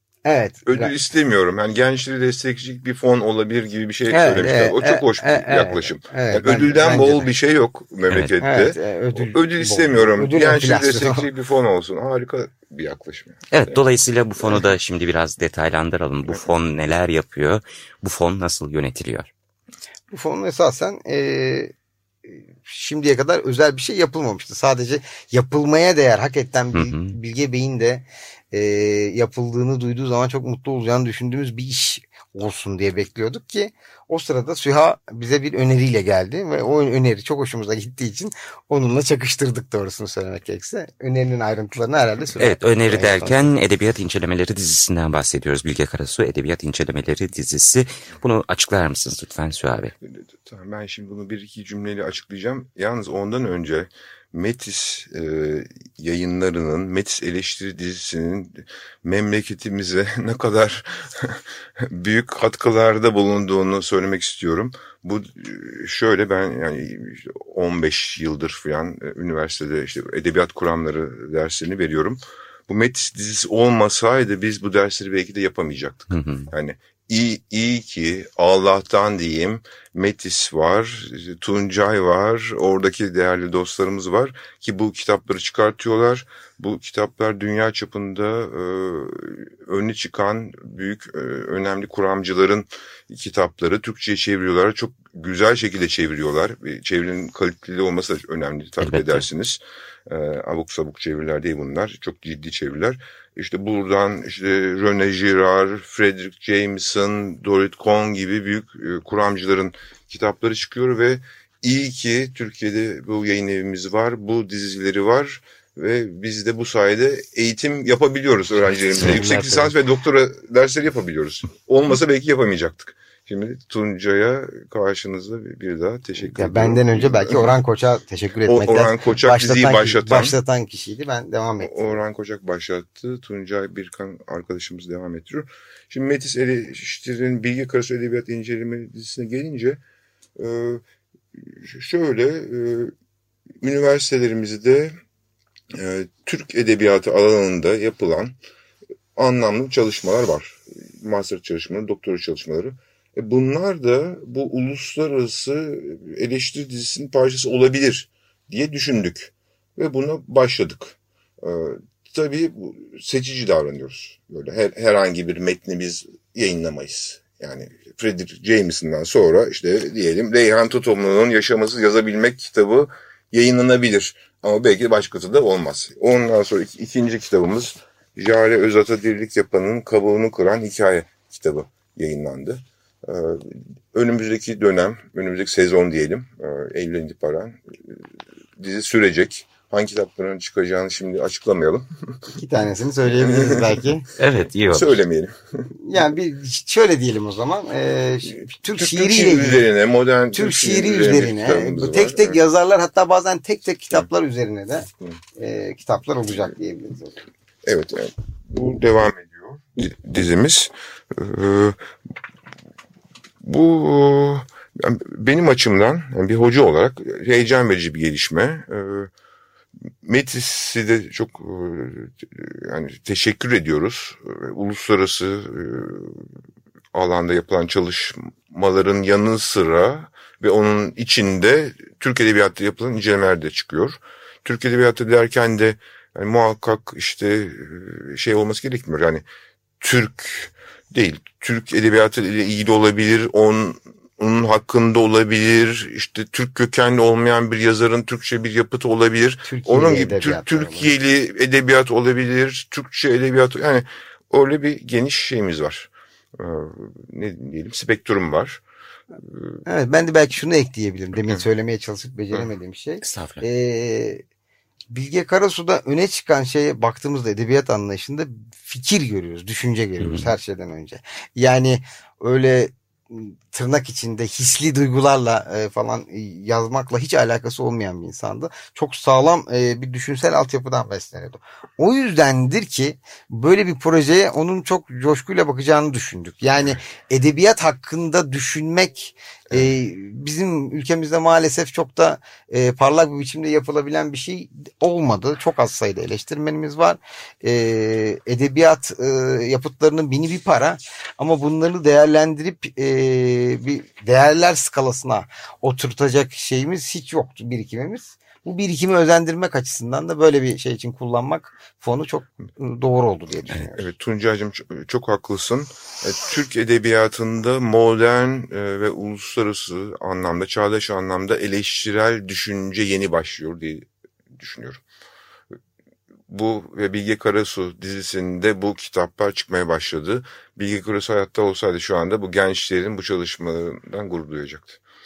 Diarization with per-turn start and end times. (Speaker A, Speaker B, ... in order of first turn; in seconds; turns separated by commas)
Speaker A: 0.2-0.9, Speaker B: 0.7-13.8, Speaker A: 4.1-7.3, Speaker A: 8.4-11.3, Speaker C: 13.5-19.3, Speaker A: 20.1-21.7, Speaker A: 22.3-43.5, Speaker C: 26.7-27.1, Speaker C: 42.4-49.9, Speaker B: 50.0-127.6, Speaker C: 76.1-76.5, Speaker C: 98.8-99.3, Speaker A: 119.0-119.8, Speaker A: 126.2-132.0, Speaker B: 128.4-130.4, Speaker B: 131.6-139.8, Speaker B: 140.4-140.8, Speaker B: 141.4-142.9, Speaker B: 143.6-144.9, Speaker B: 145.8-148.4, Speaker B: 149.2-188.0, Speaker B: 188.6-191.9, Speaker A: 192.3-194.1, Speaker B: 193.2-193.7, Speaker C: 194.2-195.0, Speaker B: 194.7-195.3, Speaker A: 195.8-199.7, Speaker B: 198.7-202.4, Speaker A: 200.3-207.2, Speaker B: 207.7-211.8, Speaker B: 213.4-219.1, Speaker B: 220.0-226.2, Speaker B: 226.9-239.2, Speaker B: 239.8-258.6, Speaker A: 249.5-250.9, Speaker B: 259.2-259.6, Speaker A: 259.7-264.2, Speaker B: 261.2-261.5, Speaker C: 263.0-263.5, Speaker A: 264.9-313.9, Speaker C: 270.0-270.3, Speaker B: 313.6-324.8, Speaker B: 326.3-334.8